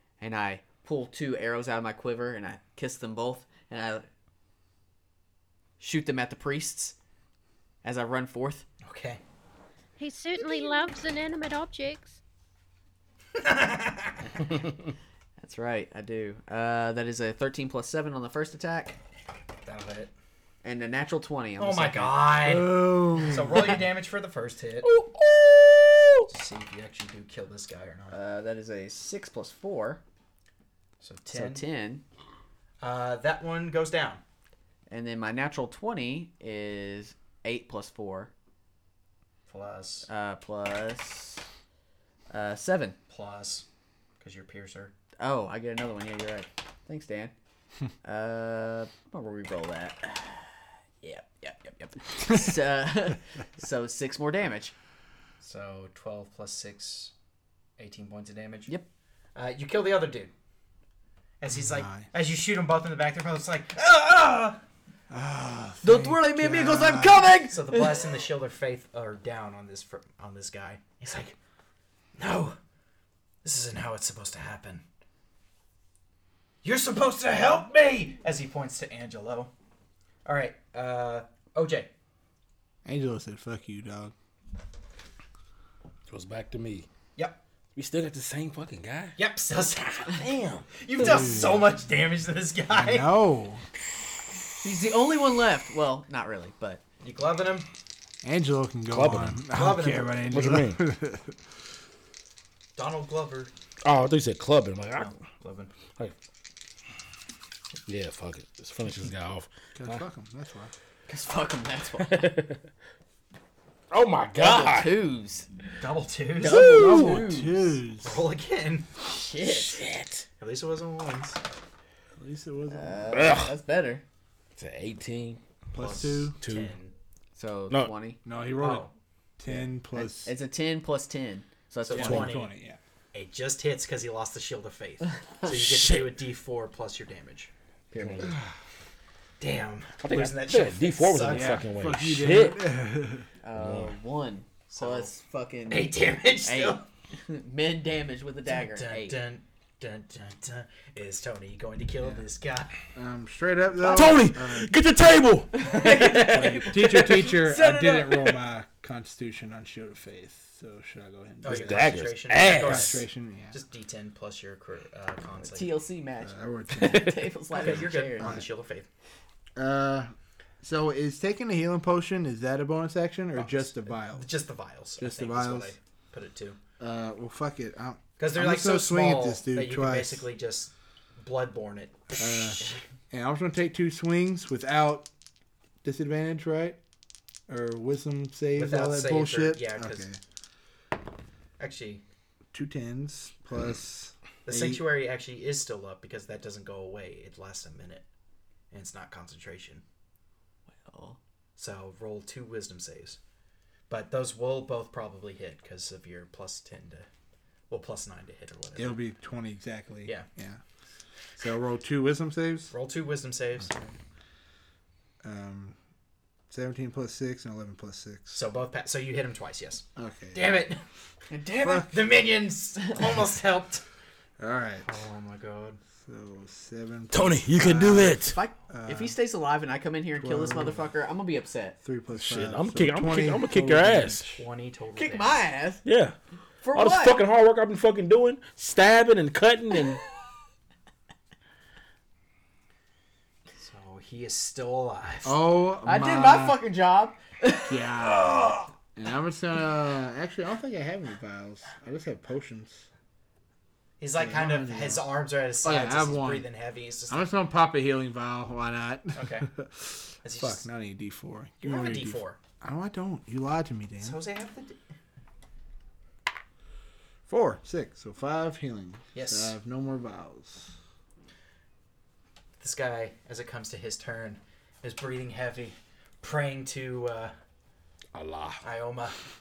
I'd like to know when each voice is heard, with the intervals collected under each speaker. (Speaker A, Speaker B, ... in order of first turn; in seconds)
Speaker A: 0.2-4.1, 5.8-7.0, 7.8-8.7, 15.4-19.0, 20.6-22.2, 24.9-26.3, 28.1-30.0, 31.3-32.0, 34.9-38.3, 40.1-41.5, 42.3-43.0, 45.2-47.3, 48.0-54.7, 65.8-68.1, 94.6-96.8, 111.1-112.3, 114.3-115.5, 116.4-117.8, 119.0-119.8, 122.7-124.0, 127.4-128.2, 129.4-132.3, 137.9-138.4, 143.4-149.2, 155.6-158.4, 165.5-168.4, 200.7-201.2, 221.3-221.9, 228.3-231.8, 234.9-235.8, 236.6-237.2, 245.8-247.9
Speaker B: 8.8-9.2, 13.4-14.3, 19.6-20.1, 21.6-24.9, 26.3-28.2, 31.0-31.6, 32.8-34.2, 39.5-40.1, 43.1-43.7, 44.2-44.9, 55.4-57.1, 57.8-58.8, 59.4-60.3, 61.4-64.6, 67.5-71.4, 72.2-72.6, 73.4-74.8, 76.6-79.5, 80.2-81.9, 89.2-93.1, 97.0-97.7, 99.5-100.3, 102.8-103.5, 105.0-105.7, 115.8-116.7, 118.0-118.9, 120.4-121.4, 125.8-126.9, 128.6-128.9, 131.8-132.5, 133.1-137.5, 139.4-141.6, 144.7-145.1, 145.7-146.9, 148.4-152.7, 153.8-154.2, 161.4-165.8, 167.5-168.9, 173.3-176.6, 178.2-182.8, 188.6-190.1, 191.6-192.0, 194.4-198.1, 198.7-199.8, 201.6-203.2, 203.9-207.1, 207.7-209.0, 212.7-213.8, 218.3-220.8, 221.9-223.8, 224.8-225.8, 234.3-235.4, 243.6-245.4, 254.0-257.3, 259.1-259.5, 260.2-260.6, 261.6-262.4, 264.0-264.8, 269.1-269.6, 272.6-277.3, 278.6-279.2
Speaker C: 10.0-12.2
Speaker D: 22.4-23.7, 61.5-62.1, 65.1-67.3, 82.8-84.1, 91.0-91.6, 92.7-93.6, 98.2-101.4, 109.8-110.7, 116.5-118.2, 122.2-123.1, 125.7-126.3, 128.2-128.9, 129.4-130.3, 131.9-132.8, 141.3-143.3, 152.9-154.7, 156.2-161.9, 162.5-163.6, 166.2-168.4, 169.6-174.3, 175.0-175.7, 176.8-180.3, 182.2-185.1, 185.8-186.8, 187.5-190.2, 192.5-194.8, 208.8-210.6, 211.4-212.7, 215.2-215.8, 216.5-218.4, 219.9-220.4, 224.4-224.9, 226.0-229.1, 230.2-230.9, 231.8-234.3, 245.2-246.6, 247.7-252.9, 254.2-255.1, 255.6-256.5, 257.1-264.2, 267.3-270.7
Speaker E: 86.1-86.9, 87.7-89.2, 90.1-90.7, 98.9-99.5, 100.2-100.8, 103.8-105.1, 105.9-106.1, 107.9-110.0, 112.0-112.6, 113.9-114.9, 116.5-117.2, 119.4-120.3, 123.1-123.5, 124.6-125.4, 126.4-126.7, 135.5-136.1, 137.9-138.4, 140.0-142.6, 143.6-143.9, 153.9-156.9, 161.5-163.0, 227.1-228.4, 232.1-234.3, 235.8-236.1, 236.7-240.0, 278.1-278.6